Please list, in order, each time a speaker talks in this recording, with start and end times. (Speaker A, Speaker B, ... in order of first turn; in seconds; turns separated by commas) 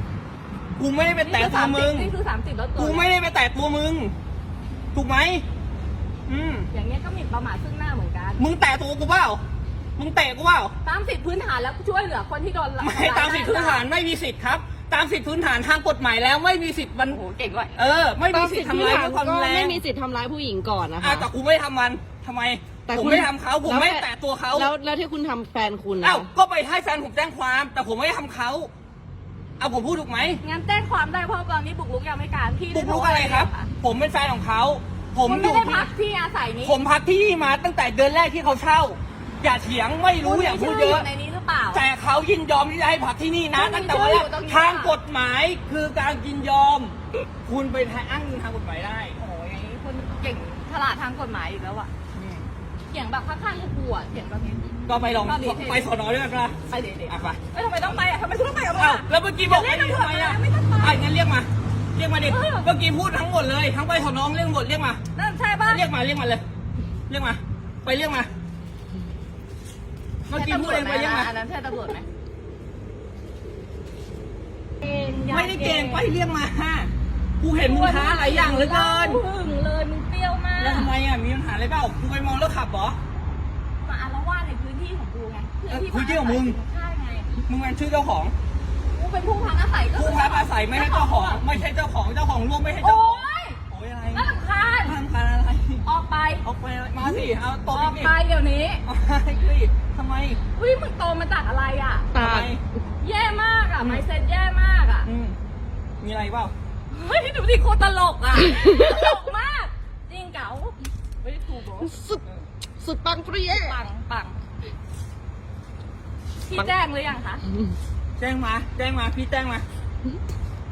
Speaker A: 0.8-2.1, Speaker B: 1.2-3.1, Speaker A: 2.8-4.1, Speaker A: 4.9-5.5, Speaker A: 6.3-6.7, Speaker B: 6.7-8.5, Speaker A: 8.4-9.4, Speaker A: 10.0-10.7, Speaker B: 10.8-13.8, Speaker A: 12.8-17.2, Speaker B: 17.1-17.8, Speaker A: 17.8-19.8, Speaker C: 18.3-21.3, Speaker A: 21.0-24.7, Speaker C: 22.9-26.3, Speaker A: 26.0-28.7, Speaker A: 29.6-30.4, Speaker B: 30.4-33.7, Speaker A: 32.7-35.9, Speaker B: 35.2-36.8, Speaker A: 36.6-41.1, Speaker B: 40.2-41.9, Speaker A: 41.7-49.2, Speaker B: 43.5-45.0, Speaker B: 49.2-51.9, Speaker A: 52.1-52.5, Speaker B: 52.9-56.0, Speaker A: 54.9-56.6, Speaker B: 56.7-61.1, Speaker A: 57.1-57.4, Speaker A: 58.7-65.0, Speaker B: 62.2-62.7, Speaker B: 65.2-65.9, Speaker A: 65.6-66.4, Speaker A: 67.1-68.3, Speaker A: 70.3-71.3, Speaker B: 70.3-72.0, Speaker B: 74.8-76.1, Speaker A: 75.3-79.2, Speaker B: 77.6-80.9, Speaker A: 80.6-83.0, Speaker B: 83.8-87.4, Speaker A: 85.7-86.6, Speaker A: 87.5-88.3, Speaker B: 88.9-91.4, Speaker A: 89.9-95.8, Speaker B: 92.8-93.6, Speaker B: 94.1-95.0, Speaker B: 95.8-96.4, Speaker A: 96.4-98.2, Speaker B: 97.0-98.8, Speaker A: 98.9-100.4, Speaker B: 100.5-102.5, Speaker C: 102.2-102.4, Speaker A: 102.2-102.6, Speaker B: 103.0-105.1, Speaker A: 105.0-105.4, Speaker A: 106.0-106.5, Speaker B: 106.9-112.0, Speaker C: 111.8-112.2, Speaker C: 112.8-113.8, Speaker B: 113.4-114.4, Speaker B: 116.5-117.4, Speaker A: 118.2-119.7